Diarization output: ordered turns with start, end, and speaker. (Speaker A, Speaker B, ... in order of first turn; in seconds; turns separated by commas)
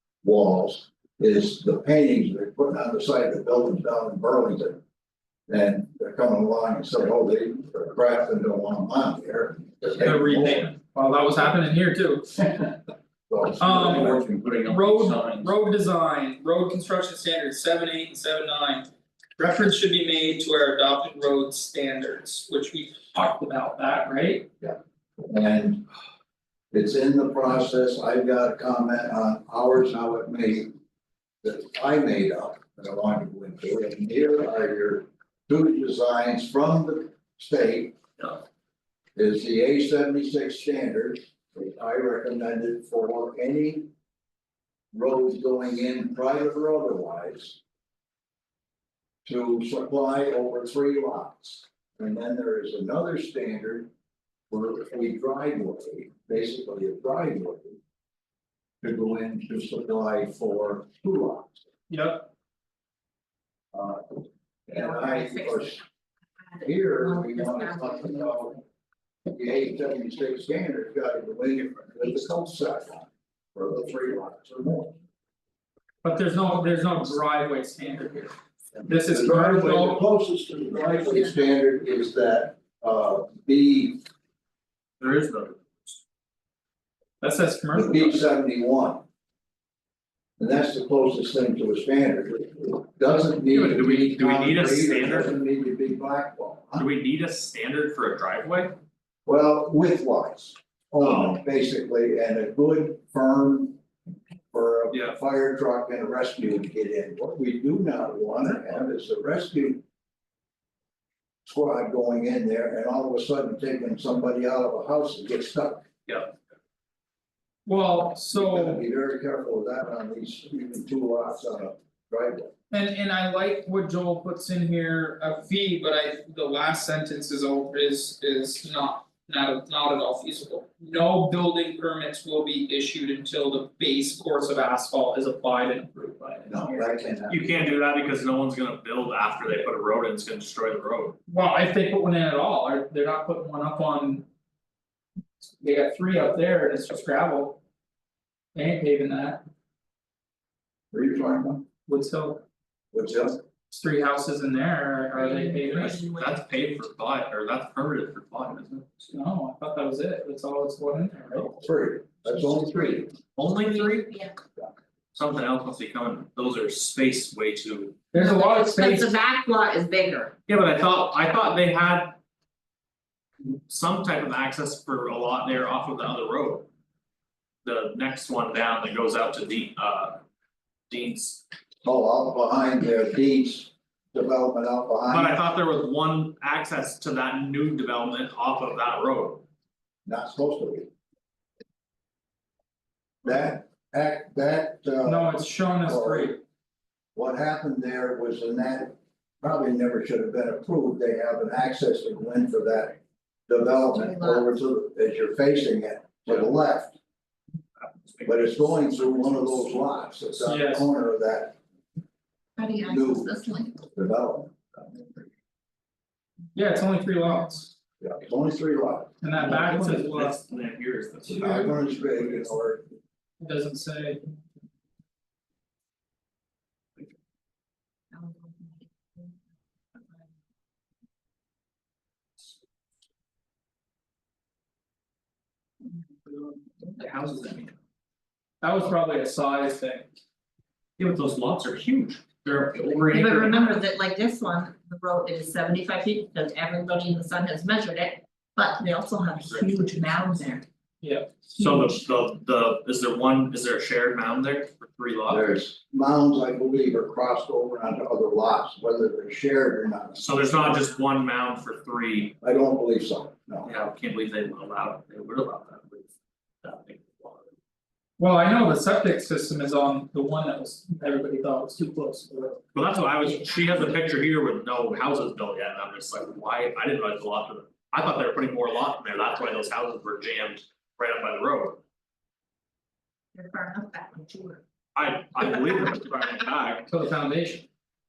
Speaker A: 0.2-4.8, Speaker A: 5.5-10.7, Speaker B: 10.0-12.7, Speaker A: 13.3-14.3, Speaker B: 13.6-24.5, Speaker C: 13.8-15.5, Speaker A: 24.6-25.9, Speaker A: 26.7-30.7, Speaker A: 31.4-38.4, Speaker A: 39.2-43.9, Speaker A: 44.9-47.6, Speaker A: 49.2-53.9, Speaker A: 54.5-57.8, Speaker A: 58.8-61.7, Speaker B: 61.9-62.3, Speaker A: 63.7-65.8, Speaker D: 64.7-65.8, Speaker D: 66.5-68.6, Speaker A: 66.6-68.5, Speaker A: 69.3-75.0, Speaker B: 76.0-78.3, Speaker A: 78.8-84.0, Speaker B: 78.9-80.0, Speaker C: 85.0-86.0, Speaker B: 87.2-88.2, Speaker A: 87.7-89.0, Speaker A: 90.4-96.9, Speaker C: 93.5-95.4, Speaker C: 96.8-98.8, Speaker A: 99.3-103.8, Speaker C: 101.0-101.4, Speaker A: 104.5-109.8, Speaker C: 104.9-105.2, Speaker A: 111.5-115.8, Speaker C: 116.1-116.3, Speaker B: 117.7-118.8, Speaker A: 118.3-122.5, Speaker B: 122.7-136.9, Speaker A: 136.5-137.5, Speaker C: 137.3-141.2, Speaker B: 141.3-144.3, Speaker B: 145.4-147.6, Speaker B: 148.5-149.4, Speaker A: 150.9-151.7, Speaker B: 151.9-152.4, Speaker A: 152.9-153.4, Speaker B: 153.7-156.1, Speaker D: 155.2-156.4, Speaker C: 155.8-158.9, Speaker B: 159.1-161.5, Speaker A: 161.5-163.1, Speaker C: 163.4-164.2, Speaker D: 163.7-164.3, Speaker C: 165.1-168.0, Speaker B: 168.1-169.1, Speaker D: 168.2-170.3, Speaker C: 170.5-172.2, Speaker C: 173.7-176.7, Speaker C: 177.6-180.2, Speaker C: 180.9-181.4, Speaker A: 181.8-185.4, Speaker C: 185.1-189.4, Speaker A: 190.1-190.9, Speaker A: 193.2-196.4, Speaker B: 195.1-196.4, Speaker A: 197.2-207.0, Speaker D: 203.9-204.6, Speaker C: 207.8-209.6, Speaker A: 208.2-211.6, Speaker B: 210.4-210.9, Speaker D: 212.6-213.8, Speaker A: 212.8-214.8, Speaker B: 216.5-217.7, Speaker A: 218.0-219.7, Speaker B: 219.2-220.4, Speaker C: 219.4-222.2, Speaker A: 221.3-222.9, Speaker B: 223.4-224.3, Speaker D: 228.1-229.4, Speaker C: 236.9-237.8, Speaker B: 238.6-240.1, Speaker C: 241.0-243.8, Speaker D: 243.1-250.7, Speaker C: 249.5-250.2, Speaker B: 251.0-251.3, Speaker C: 251.6-255.5, Speaker A: 255.3-260.8, Speaker C: 260.2-262.4, Speaker A: 262.4-263.7, Speaker C: 263.6-266.1, Speaker C: 266.6-267.5, Speaker B: 268.2-272.6, Speaker C: 272.7-281.8, Speaker D: 283.4-284.6, Speaker C: 284.9-286.9, Speaker B: 286.9-287.7